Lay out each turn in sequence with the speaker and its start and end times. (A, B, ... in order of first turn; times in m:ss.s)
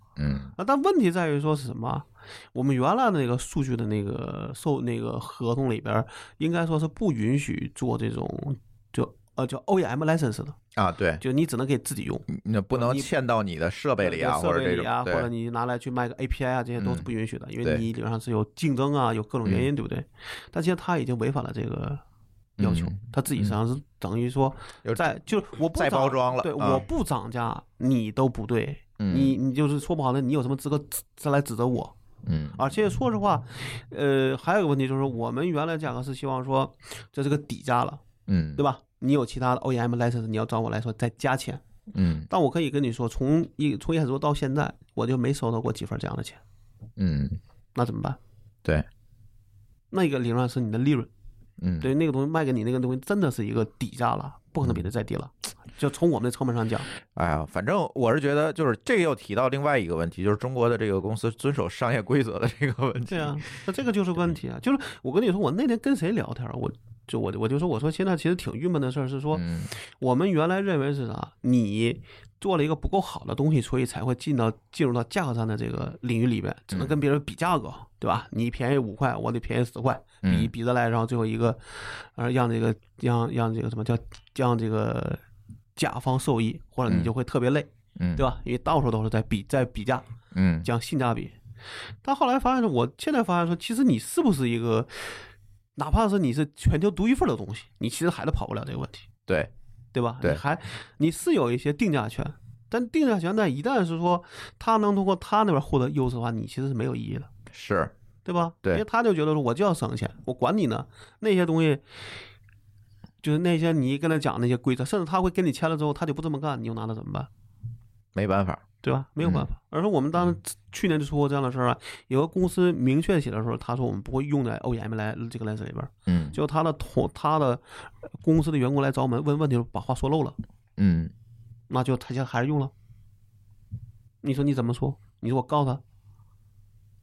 0:00.2-0:00.5 A
0:00.6-0:10.6 B
0:10.7-0:11.2 A
0:11.2-0:13.1 B
0:12.3-0:15.3 A
0:14.0-0:22.0 B
0:16.8-0:17.1 A
0:22.6-0:23.6 A
0:22.6-0:31.9 B
0:24.8-0:25.1 A
0:25.6-0:26.8 A
0:29.0-0:29.4 A
0:32.2-0:32.6 A
0:32.5-0:38.0 B
0:38.3-0:38.6 A
0:38.6-0:41.6 B
0:41.9-0:42.3 A
0:42.3-0:46.4 B
0:47.0-0:47.4 A
0:47.7-0:48.2 B
0:49.9-0:51.1 B
0:51.6-0:51.9 A
0:51.8-0:56.9 B
0:57.1-1:03.5 A
1:03.1-1:25.2 B
1:09.3-1:09.7 A
1:16.7-1:17.0 A
1:20.2-1:20.5 A
1:25.8-1:30.0 B
1:28.0-1:28.2 A
1:30.3-1:30.7 A
1:30.6-1:31.3 B
1:32.0-1:35.2 B
1:35.8-1:39.0 B
1:39.3-1:39.5 A
1:39.9-1:47.3 B
1:47.5-1:47.9 A
1:48.2-1:51.8 B
1:53.2-1:57.3 B
1:58.1-1:58.6 A
1:58.8-2:07.6 B
2:06.1-2:06.4 A
2:08.2-2:10.4 B
2:10.8-2:11.1 A
2:11.7-2:12.7 B
2:14.2-2:15.8 B